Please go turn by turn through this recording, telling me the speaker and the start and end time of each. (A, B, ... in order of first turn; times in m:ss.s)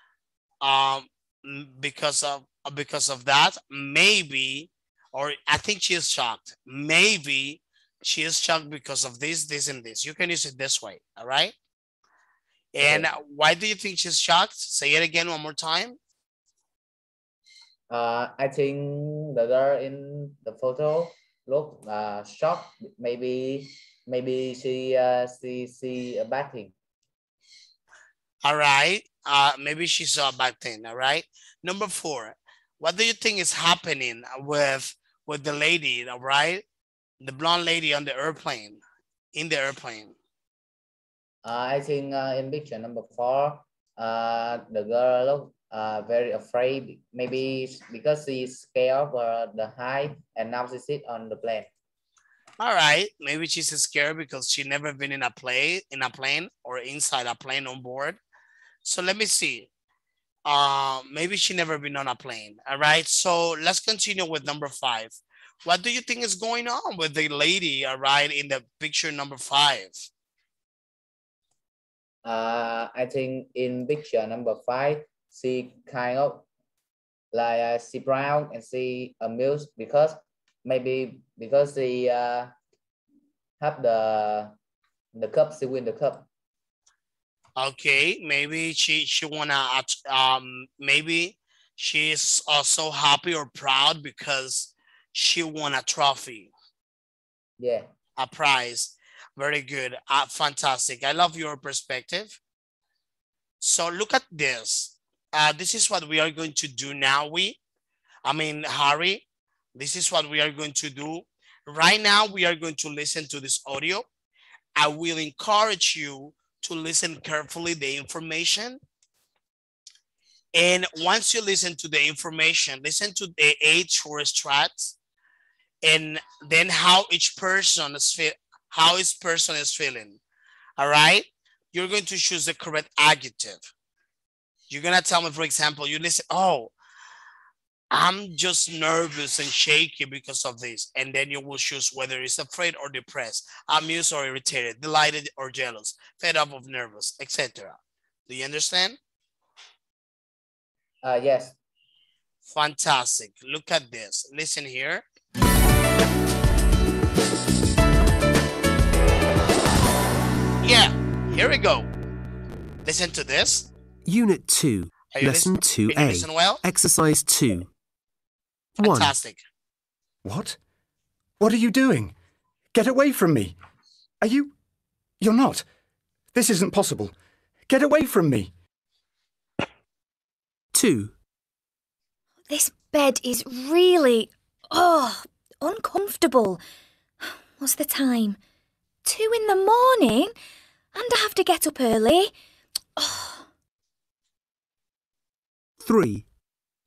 0:00.6-0:11.5 A
0:12.7-0:16.0 A
0:12.8-0:13.1 B
0:17.9-0:26.7 B
0:28.4-0:36.6 A
0:37.2-0:38.8 A
0:39.3-0:40.2 A
0:41.4-0:51.7 B
0:52.6-0:58.2 A
0:58.8-0:59.7 A
1:00.4-1:10.1 A
1:12.2-1:16.5 B
1:17.3-1:22.5 B
1:23.6-1:24.5 B
1:25.1-1:26.3 B
1:27.6-1:36.5 A
1:37.6-1:37.9 B
1:38.2-1:42.4 A
1:43.6-1:47.6 A
1:48.2-1:54.1 A
1:54.8-1:58.8 A
2:00.5-2:05.0 A
2:05.8-2:10.2 A
2:10.8-2:13.7 A
2:14.7-2:16.7 A
2:17.9-2:29.0 A
2:31.0-2:31.6 B
2:32.4-2:35.0 A
2:40.6-2:41.9 A
2:42.8-2:43.7 A
2:44.0-2:47.7 C
2:45.1-2:46.6 A
2:48.8-2:49.1 C
2:48.8-2:49.4 A
2:50.2-2:50.6 D
2:51.4-2:52.1 D
2:52.7-2:53.6 D
2:54.2-2:54.5 D
2:55.2-2:55.7 D
2:56.3-2:57.1 D
2:57.7-2:58.5 D
3:00.7-3:01.1 C
3:02.5-3:06.6 E
3:07.6-3:08.4 E
3:09.0-3:10.3 E
3:10.9-3:12.3 E
3:13.0-3:13.4 E
3:15.8-3:16.3 C